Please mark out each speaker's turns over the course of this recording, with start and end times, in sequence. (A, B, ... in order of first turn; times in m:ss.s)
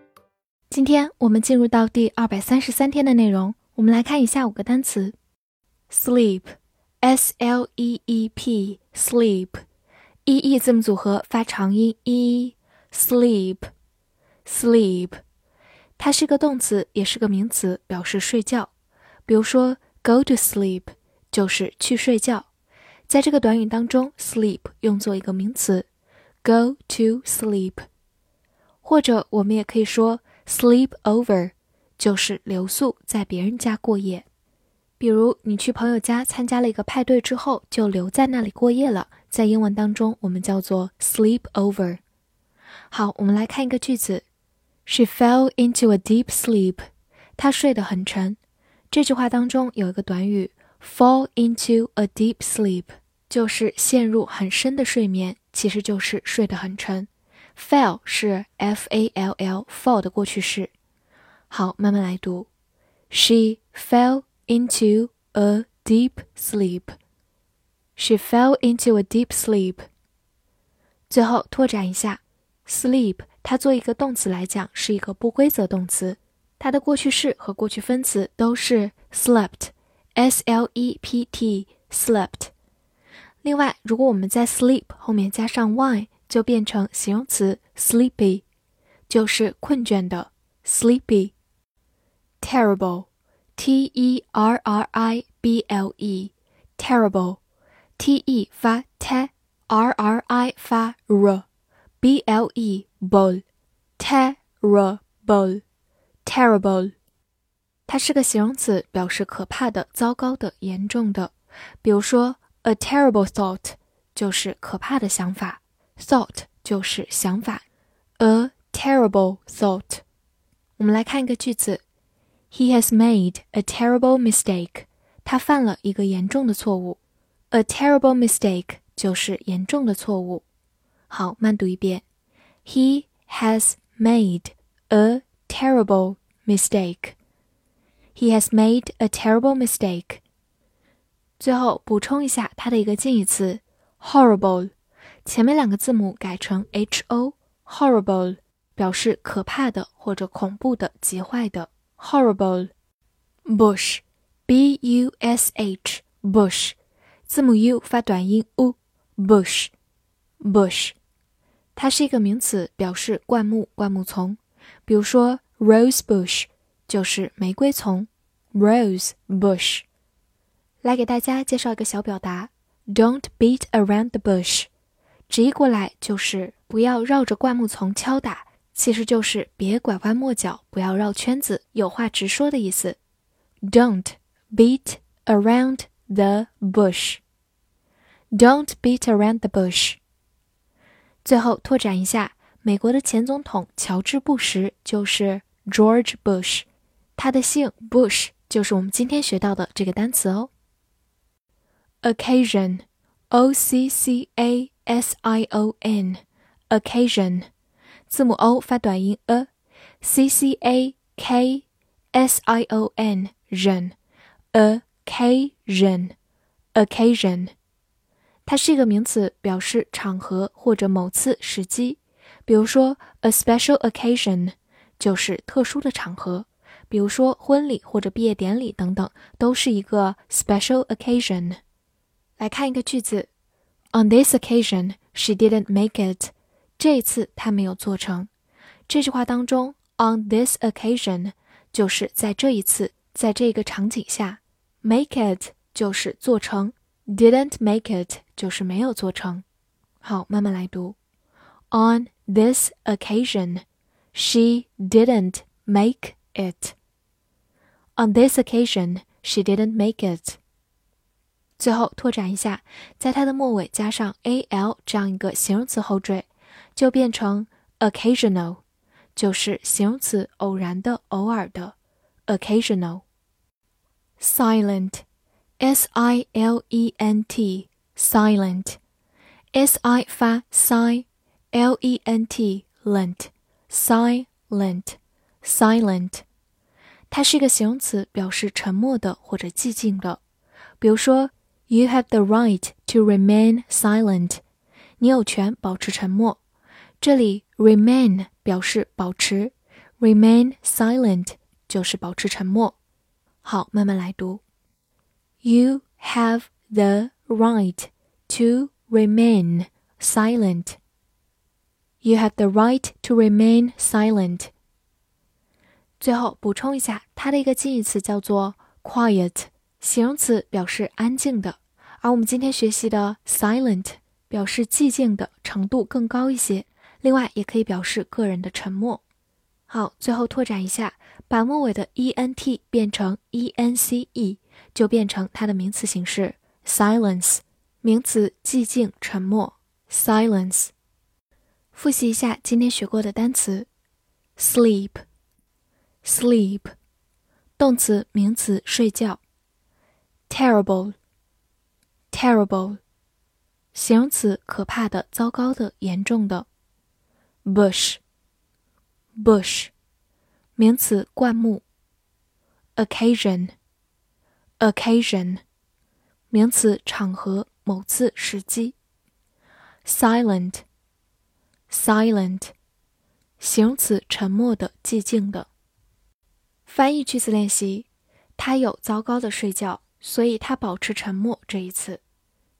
0:00.7-0:05.2 A
0:05.9-0:09.6 A
0:10.2-0:13.7 A
0:14.4-0:15.2 A
0:16.0-0:18.7 A
0:19.3-0:22.5 A
0:23.1-0:25.9 A
0:26.4-0:27.8 A
0:28.8-0:34.2 A
0:35.0-0:42.0 A
0:42.9-0:44.2 A
0:44.8-0:46.8 A
0:47.4-0:48.4 A
0:48.9-1:00.7 A
1:01.5-1:02.5 A
1:03.1-1:06.9 A
1:08.0-1:09.8 A
1:11.1-1:22.5 A
1:23.4-1:28.4 A
1:29.1-1:31.3 A
1:32.4-1:37.4 A
1:38.0-1:41.4 A
1:42.0-1:43.4 A
1:44.0-1:45.6 A
1:46.2-1:46.9 A
1:47.9-1:57.6 A
1:58.2-2:00.0 A
2:00.8-2:01.8 A
2:02.5-2:07.0 A
2:07.5-2:10.4 A
2:11.1-2:12.0 A
2:12.6-2:17.2 A
2:18.1-2:20.2 A
2:21.4-2:24.7 A
2:25.2-2:32.7 A
2:33.4-2:36.8 A
2:37.3-2:39.7 A
2:40.4-2:40.9 A
2:41.8-2:49.8 A
2:50.8-2:54.7 A
2:55.3-3:03.0 A
3:03.7-3:07.2 A
3:08.3-3:10.0 A
3:11.2-3:16.6 A
3:17.2-3:20.5 A
3:22.0-3:27.5 A
3:28.1-3:29.5 A
3:30.0-3:34.0 A
3:34.5-3:36.1 A
3:36.7-3:37.5 A
3:38.4-3:51.6 A
3:52.4-3:53.3 A
3:53.9-3:58.3 A
3:58.9-4:09.4 A
4:10.0-4:11.0 A
4:11.7-4:16.7 A
4:18.0-4:20.4 A
4:21.6-4:28.6 A
4:29.2-4:31.7 A
4:32.3-4:33.0 A
4:34.2-4:35.0 A
4:35.6-4:38.8 A
4:39.5-4:46.2 A
4:47.1-4:50.2 A
4:50.8-4:54.4 A
4:55.0-4:56.4 A
4:57.0-5:02.8 A
5:03.4-5:04.4 A
5:05.4-5:10.8 A
5:12.0-5:14.5 A
5:16.0-5:29.0 A
5:29.7-5:40.7 A
5:41.7-5:43.7 A
5:44.4-5:45.0 A
5:46.0-5:46.7 A
5:47.6-5:49.2 A
5:50.3-5:50.9 A
5:52.1-5:52.8 A
5:53.7-5:56.4 A
5:57.4-5:58.0 A
5:59.2-5:59.7 A
6:00.6-6:01.6 A
6:02.8-6:03.5 A
6:04.6-6:05.4 A
6:06.3-6:08.8 A
6:09.8-6:10.6 A
6:11.7-6:12.5 A
6:13.4-6:15.5 A
6:16.6-6:22.0 A